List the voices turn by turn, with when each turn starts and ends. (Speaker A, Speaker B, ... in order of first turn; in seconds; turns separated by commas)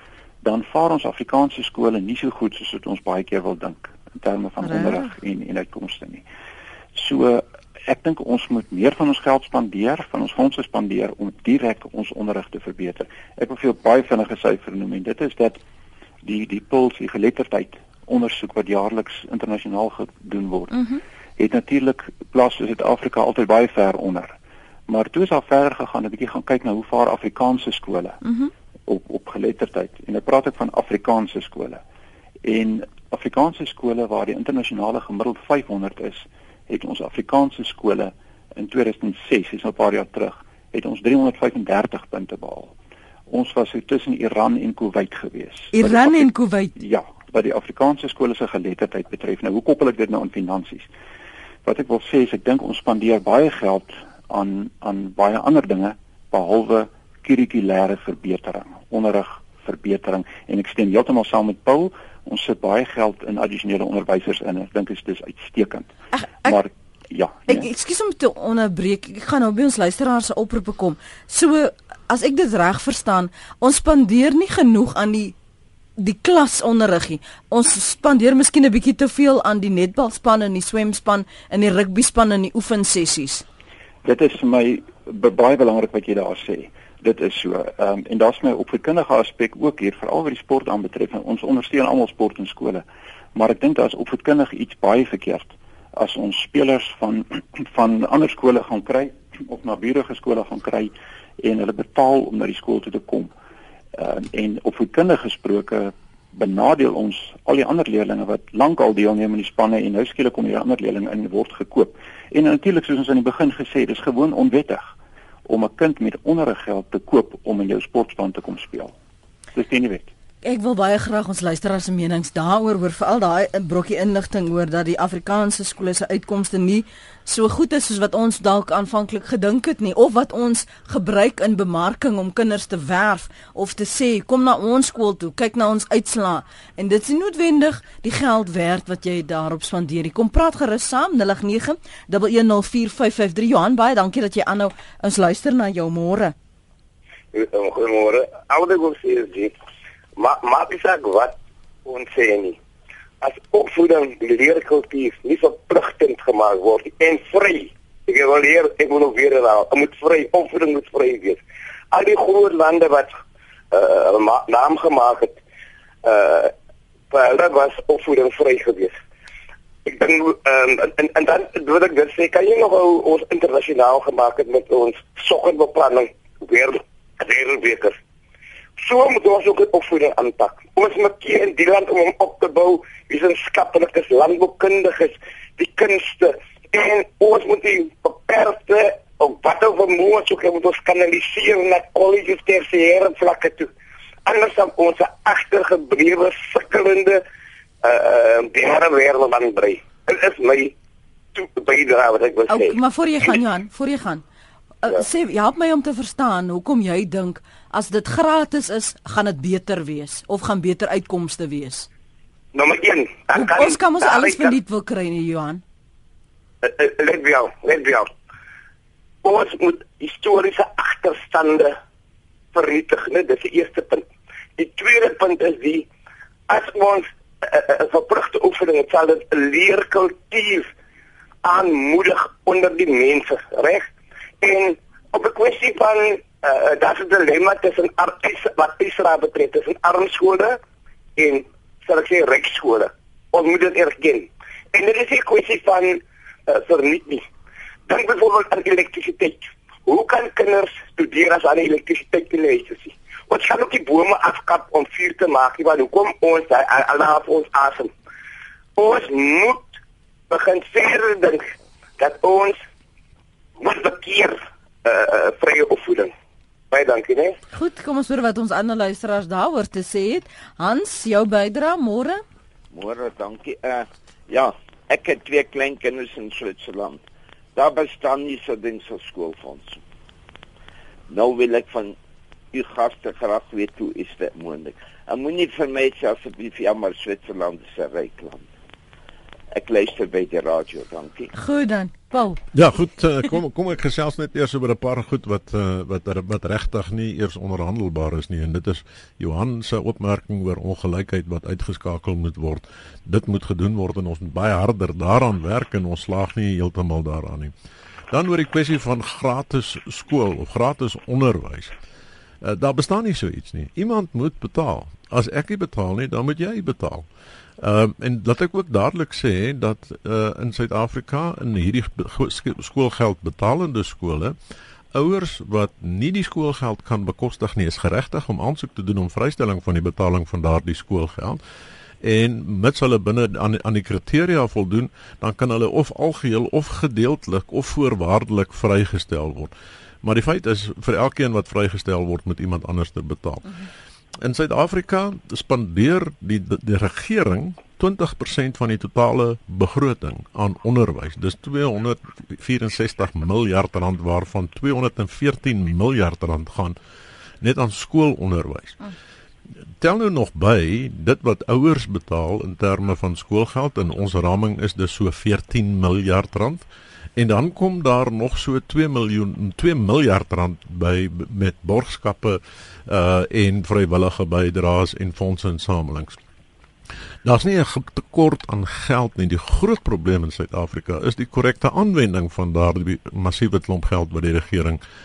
Speaker A: 0.4-6.2, Speaker B: 4.6-5.0, Speaker A: 6.9-15.6, Speaker A: 16.2-24.4, Speaker A: 24.9-28.2, Speaker B: 28.2-28.5, Speaker A: 28.9-31.8, Speaker A: 32.4-42.7, Speaker A: 43.3-50.9, Speaker B: 45.7-46.8, Speaker A: 51.6-65.9, Speaker B: 66.1-66.6, Speaker A: 66.4-67.7, Speaker B: 67.5-75.3, Speaker B: 76.0-83.4, Speaker A: 84.0-92.8, Speaker A: 93.3-103.3, Speaker A: 103.9-114.9, Speaker A: 115.5-118.9, Speaker A: 119.5-120.1, Speaker B: 120.4-146.3, Speaker C: 147.3-149.6, Speaker C: 150.2-152.6, Speaker C: 153.2-163.1, Speaker C: 163.7-165.4, Speaker C: 166.0-166.5, Speaker C: 167.1-168.9, Speaker C: 169.8-177.9, Speaker C: 178.8-193.7, Speaker C: 194.2-197.2, Speaker C: 197.8-200.7, Speaker C: 201.3-202.8, Speaker B: 202.5-204.2, Speaker B: 204.8-211.9, Speaker C: 212.5-214.5, Speaker B: 213.3-215.6, Speaker C: 216.6-218.1, Speaker C: 219.2-221.7, Speaker C: 222.5-224.0, Speaker C: 224.6-225.8, Speaker C: 226.5-230.7, Speaker C: 231.4-233.9, Speaker C: 234.4-240.6, Speaker C: 241.2-247.2, Speaker C: 247.9-257.9, Speaker C: 258.8-259.8, Speaker C: 260.3-261.4, Speaker C: 262.0-262.6, Speaker C: 263.6-266.1, Speaker C: 266.7-267.4, Speaker B: 267.5-272.2, Speaker D: 272.7-277.0, Speaker D: 277.6-279.8, Speaker D: 281.1-281.9, Speaker D: 282.5-288.5, Speaker D: 289.5-291.3, Speaker B: 291.3-292.4, Speaker E: 292.5-307.5, Speaker E: 308.1-311.7, Speaker E: 312.4-317.1, Speaker E: 317.6-324.4, Speaker E: 324.9-331.4, Speaker E: 332.0-339.5, Speaker E: 340.0-343.6, Speaker E: 344.2-356.8, Speaker E: 357.4-358.8, Speaker E: 359.8-366.6, Speaker E: 367.1-376.2, Speaker E: 377.2-384.8